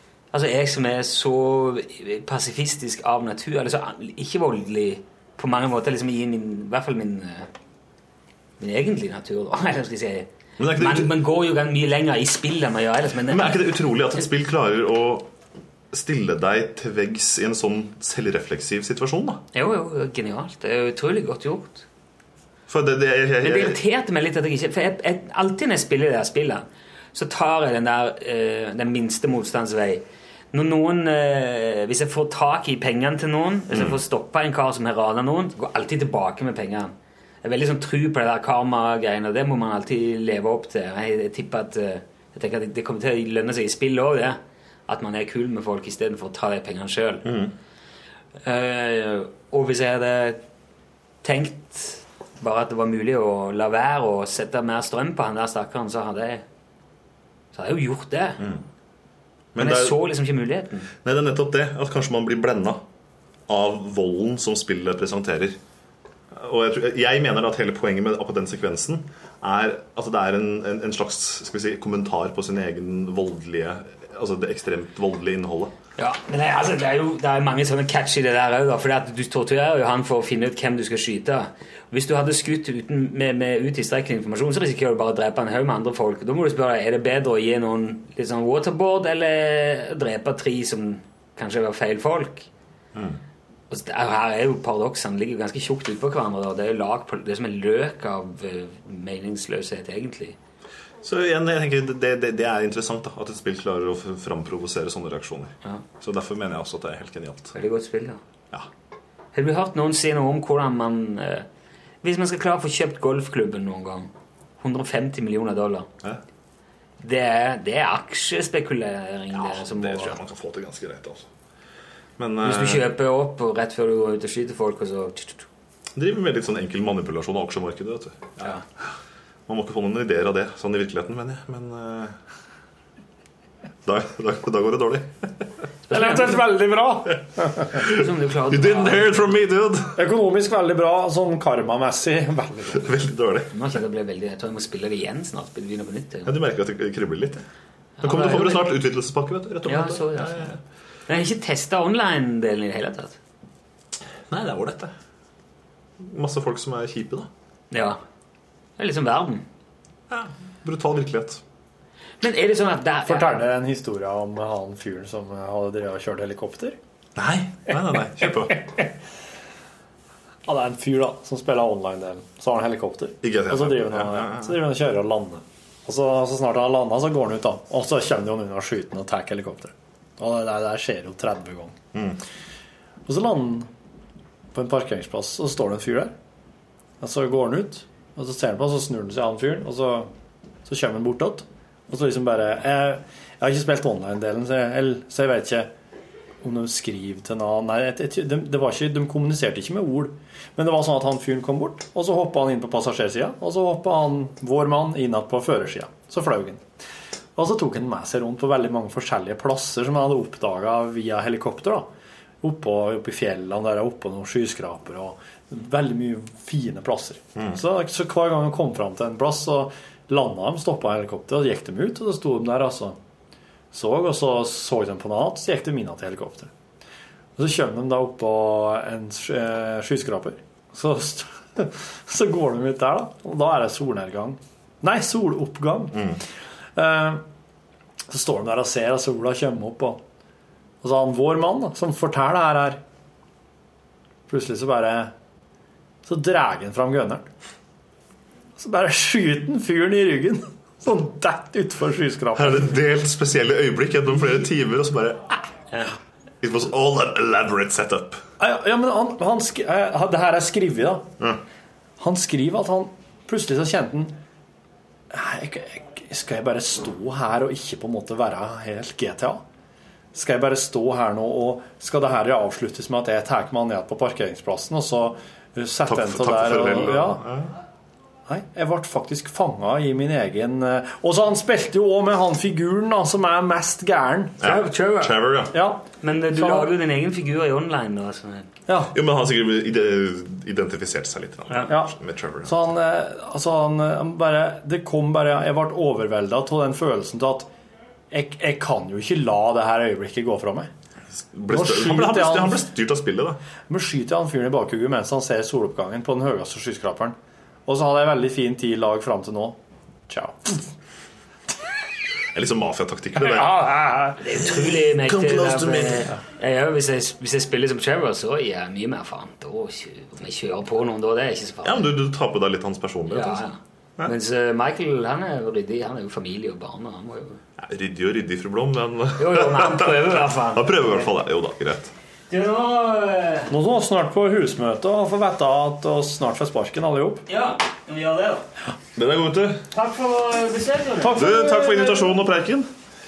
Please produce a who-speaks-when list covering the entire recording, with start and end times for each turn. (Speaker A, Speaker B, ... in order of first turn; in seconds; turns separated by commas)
Speaker A: 0.3-7.5, Speaker A: 8.6-13.6, Speaker B: 10.6-11.2, Speaker B: 13.2-15.3, Speaker B: 15.9-19.4, Speaker A: 19.5-21.9, Speaker B: 22.7-23.8, Speaker A: 23.4-47.3, Speaker B: 33.7-34.0, Speaker B: 47.2-47.5, Speaker A: 48.4-50.4, Speaker A: 51.2-56.4, Speaker A: 57.5-58.4, Speaker B: 59.5-60.0, Speaker A: 59.6-60.9, Speaker B: 61.0-62.8, Speaker B: 63.5-65.6, Speaker B: 66.3-75.7, Speaker A: 76.0-92.5, Speaker A: 93.7-100.4, Speaker B: 101.0-107.6, Speaker A: 107.5-108.2, Speaker A: 109.3-111.5, Speaker A: 112.0-115.9, Speaker A: 117.0-120.2, Speaker B: 119.3-121.3, Speaker B: 122.2-122.9, Speaker A: 122.4-125.5, Speaker B: 125.9-128.6, Speaker B: 129.5-132.2, Speaker B: 133.8-135.3, Speaker A: 135.9-136.5, Speaker C: 135.9-137.6, Speaker B: 137.6-140.0, Speaker A: 137.8-139.2, Speaker C: 139.9-142.9, Speaker B: 142.7-143.5, Speaker A: 143.5-146.3, Speaker B: 146.2-147.4, Speaker A: 148.0-148.7, Speaker B: 148.0-150.6, Speaker A: 149.6-153.2, Speaker B: 154.3-154.9, Speaker B: 156.0-157.3, Speaker A: 157.7-158.0, Speaker A: 158.8-159.4, Speaker B: 160.1-161.4, Speaker A: 162.2-163.4, Speaker C: 163.1-166.8, Speaker B: 167.2-168.6, Speaker C: 168.2-168.9, Speaker C: 170.4-181.8, Speaker B: 173.2-174.6, Speaker B: 181.9-182.2, Speaker C: 183.1-183.7, Speaker C: 184.5-186.1, Speaker C: 187.0-190.1, Speaker C: 190.6-195.7, Speaker C: 196.4-206.6, Speaker C: 207.3-211.9, Speaker C: 212.4-223.0, Speaker C: 223.7-226.5, Speaker C: 227.4-236.2, Speaker C: 236.8-237.2, Speaker C: 238.1-240.0, Speaker C: 240.8-242.8, Speaker C: 244.3-245.1, Speaker C: 246.0-247.3, Speaker C: 248.6-252.8, Speaker B: 252.3-255.3, Speaker B: 256.4-258.2, Speaker C: 258.4-261.1, Speaker C: 262.0-264.1, Speaker C: 265.1-269.4, Speaker C: 270.1-277.2, Speaker B: 275.9-277.5, Speaker C: 278.3-284.4, Speaker B: 284.4-285.6, Speaker A: 284.4-285.3, Speaker C: 285.5-286.7, Speaker A: 286.0-288.5, Speaker C: 288.7-288.9, Speaker B: 288.9-292.6, Speaker C: 291.7-291.9, Speaker C: 292.4-297.5, Speaker C: 298.1-300.7, Speaker B: 301.3-303.4, Speaker C: 301.5-302.7, Speaker C: 303.7-310.6, Speaker B: 312.3-314.0, Speaker A: 314.2-321.9, Speaker B: 315.0-316.1, Speaker B: 321.6-323.5, Speaker A: 323.1-327.4, Speaker B: 327.6-331.9, Speaker A: 329.2-331.1, Speaker A: 332.3-333.5, Speaker C: 333.5-337.2, Speaker A: 337.3-338.4, Speaker B: 338.9-339.6, Speaker A: 339.7-341.3, Speaker C: 341.0-342.2, Speaker B: 341.1-342.7